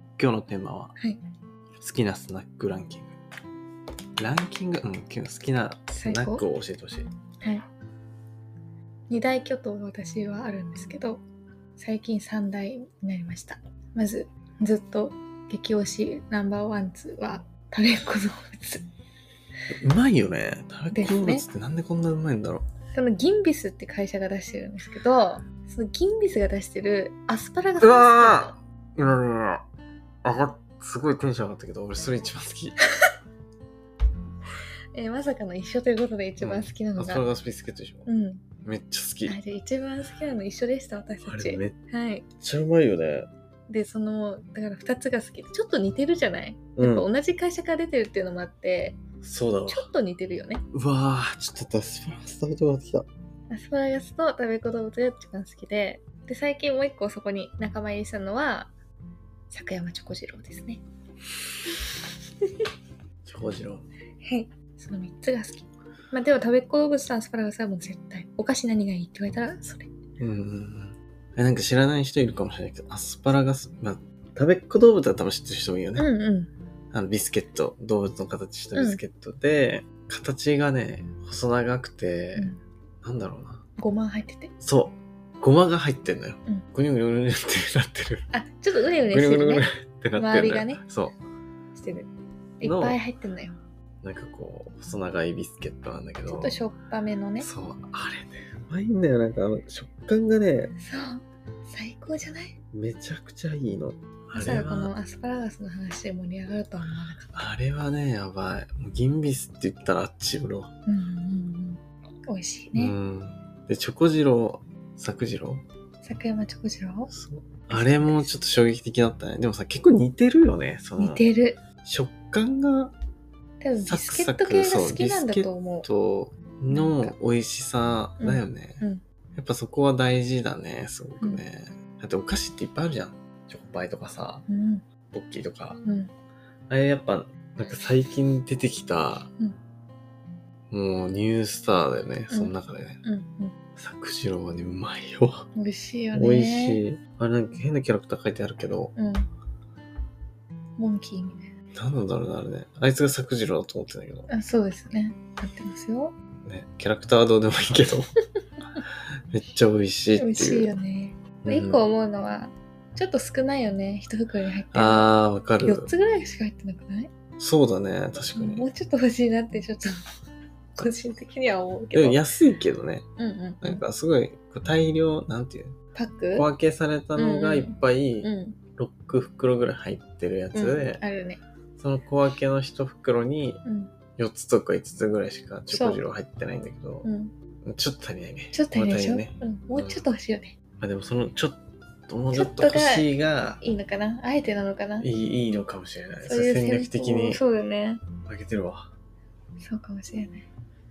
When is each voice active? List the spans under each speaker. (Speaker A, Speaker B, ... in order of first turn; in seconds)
Speaker A: 0.2-0.9, 1.8-3.1, 4.2-7.1, 19.7-22.6, 27.8-29.6, 30.2-32.8, 36.4-38.1, 38.6-39.4, 41.2-41.8, 42.4-43.3, 46.8-47.1, 49.2-49.9, 50.7-53.1, 63.3-63.9, 70.2-76.1, 76.9-83.6, 84.6-88.3, 89.1-91.2, 92.6-93.0, 94.0-96.6, 97.4-100.7, 102.7-104.9, 107.3-110.7, 112.7-115.6, 117.1-121.2, 121.8-122.9, 123.8-128.8, 129.3-134.4, 135.1-135.8, 136.7-139.3, 140.7-143.0, 143.8-145.5, 146.1-148.9, 151.8-154.3, 156.5-158.1, 159.3-160.7, 161.4-161.8, 164.7-165.9, 167.4-168.7, 171.9-173.1, 173.6-175.8, 176.3-181.0, 181.8-183.6, 184.2-187.1, 187.7-190.0, 190.8-193.6, 195.0-197.4, 198.3-198.9
Speaker B: 5.9-6.4, 9.1-11.2, 11.8-18.8, 20.9-21.5, 22.9-28.5, 34.9-37.2, 38.1-38.4, 39.3-42.3, 43.7-49.0, 49.7-50.6, 53.5-58.7, 59.5-60.8, 64.2-69.9, 76.0-76.5, 78.8-79.0, 83.8-84.5, 88.3-90.8, 91.7-92.1, 92.6-93.6, 96.3-97.5, 100.8-102.5, 104.3-107.5, 110.9-113.0, 116.0-117.1, 117.7-118.3, 121.0-121.6, 123.6-125.9, 126.7-127.1, 128.2-129.0, 134.5-134.8, 135.8-136.1, 143.0-143.6, 145.6-146.8, 149.0-149.3, 150.8-151.5, 154.3-156.1, 160.2-167.1, 168.3-170.0, 170.8-172.2, 173.2-173.8, 175.9-176.5, 177.2-178.6, 180.5-181.4, 183.7-183.9, 185.7-186.0, 187.0-187.3, 188.5-190.5, 192.3-195.1, 196.2-198.0, 199.6-200.5